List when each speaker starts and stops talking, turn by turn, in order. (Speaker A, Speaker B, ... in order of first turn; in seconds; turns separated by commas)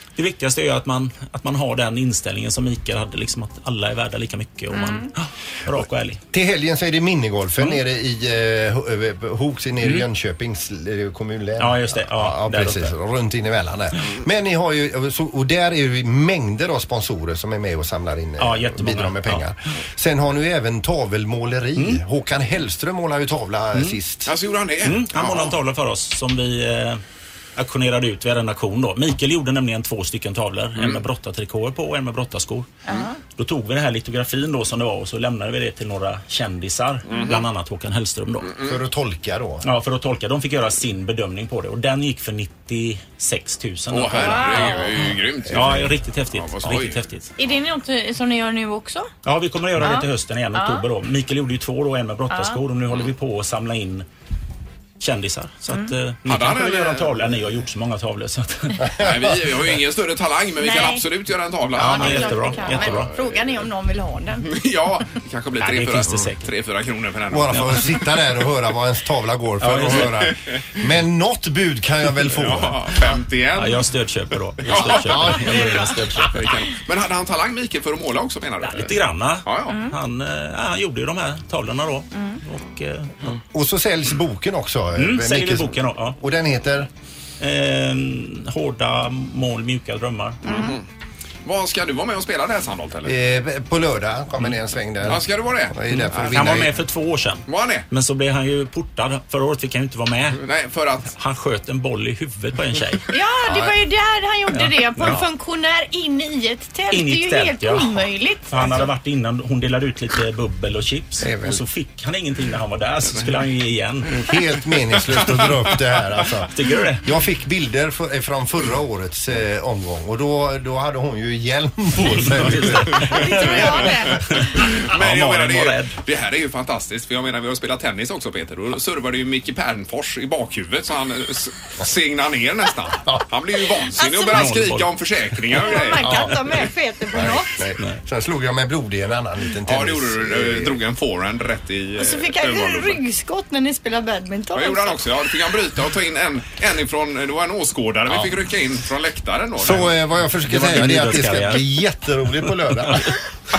Speaker A: 0.2-6.2, Speaker B: 4.7-5.1, Speaker C: 6.3-24.3, Speaker A: 11.6-12.9, Speaker A: 18.4-19.4, Speaker D: 24.3-25.6, Speaker A: 24.8-27.0, Speaker A: 27.6-32.7, Speaker D: 30.8-31.0, Speaker B: 32.9-33.1, Speaker A: 33.4-38.6, Speaker D: 37.1-37.4, Speaker D: 38.5-38.7, Speaker C: 38.6-39.7, Speaker A: 39.6-44.9, Speaker D: 43.9-47.0, Speaker B: 44.2-44.9, Speaker A: 45.5-47.3, Speaker C: 45.5-45.9, Speaker B: 47.4-49.1, Speaker A: 49.2-54.0, Speaker B: 49.8-50.9, Speaker B: 52.3-52.6, Speaker A: 55.0-59.0, Speaker D: 56.2-57.4, Speaker C: 59.0-59.6, Speaker D: 59.0-63.2, Speaker B: 60.6-61.0, Speaker A: 61.8-63.1, Speaker B: 61.8-64.5, Speaker D: 64.5-68.0, Speaker A: 65.6-66.5, Speaker C: 67.3-72.9, Speaker A: 69.6-70.1, Speaker D: 69.9-70.2, Speaker D: 72.3-73.9, Speaker A: 73.5-76.4, Speaker D: 74.6-75.4, Speaker C: 74.8-76.3, Speaker B: 75.5-75.8, Speaker D: 76.2-79.8, Speaker A: 78.6-83.3, Speaker B: 79.7-80.0, Speaker C: 83.5-86.9, Speaker A: 85.0-86.2, Speaker A: 87.4-90.4, Speaker B: 90.5-90.8, Speaker D: 90.5-90.8, Speaker D: 91.5-93.2, Speaker C: 93.1-96.7, Speaker D: 95.1-96.6, Speaker A: 95.9-100.4, Speaker D: 97.5-97.9, Speaker D: 100.4-101.1, Speaker A: 101.1-103.0, Speaker B: 103.1-108.9, Speaker A: 104.5-105.3, Speaker A: 106.9-114.2, Speaker C: 111.2-111.6, Speaker C: 114.3-116.5, Speaker D: 115.1-115.4, Speaker A: 116.5-117.1, Speaker C: 117.0-123.7, Speaker A: 122.1-123.8, Speaker B: 123.1-124.2, Speaker D: 123.4-136.5, Speaker A: 124.9-126.0, Speaker B: 134.0-134.5, Speaker A: 134.3-135.4, Speaker B: 135.5-137.6, Speaker C: 136.0-136.3, Speaker C: 137.1-140.8, Speaker D: 139.7-143.0, Speaker B: 142.0-145.2, Speaker D: 144.5-149.9, Speaker C: 148.1-148.3, Speaker C: 149.6-153.2, Speaker A: 150.5-151.7